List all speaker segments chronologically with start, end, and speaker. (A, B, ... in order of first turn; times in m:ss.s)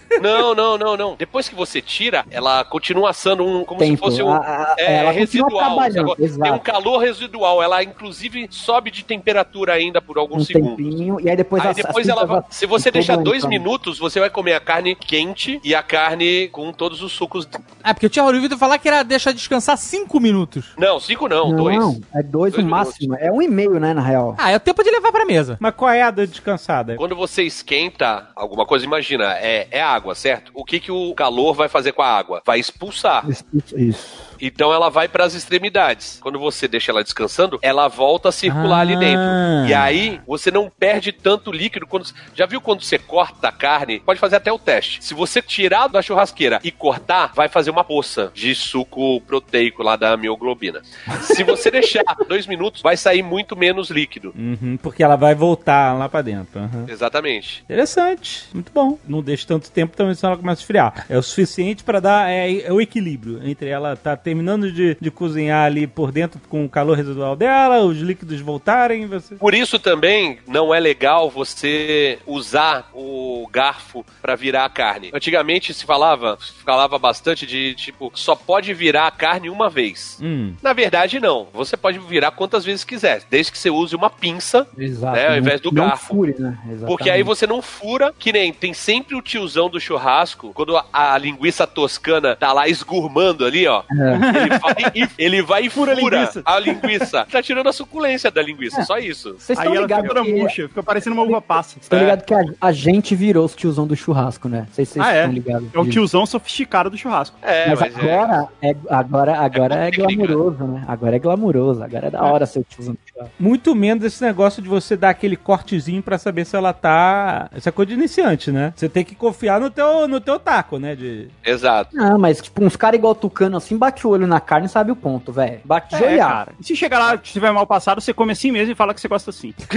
0:00.2-0:10.8 A
0:03.8-0:06.6 B
0:10.3-0:13.6 B
0:11.6-0:17.6 A
0:17.8-0:20.7 C
0:20.8-0:22.0 A
0:21.4-0:24.4 B
0:22.5-0:23.1 A
0:24.4-0:25.6 C
0:25.6-0:27.0 D
0:27.0-0:33.3 A
0:33.2-0:34.2 B
0:34.4-0:54.3 A
0:38.5-0:40.0 D
0:51.2-0:51.6 B
0:54.3-0:56.9 D
0:56.9-0:57.6 A
0:57.7-1:09.4 D
1:09.4-1:26.1 A
1:20.2-1:20.6 D
1:24.7-1:27.3 B
1:26.8-1:39.4 A
1:33.9-1:34.2 B
1:34.1-1:35.1 E
1:35.7-1:37.0 E
1:39.4-1:40.6 B
1:39.5-1:41.9 E
1:41.2-1:46.0 B
1:41.9-1:42.2 A
1:45.0-1:47.6 E
1:47.4-1:48.4 A
1:47.6-1:53.3 B
1:49.5-1:50.4 A
1:53.4-2:01.3 D
2:01.4-2:01.9 A
2:01.9-2:06.4 B
2:05.9-2:09.6 E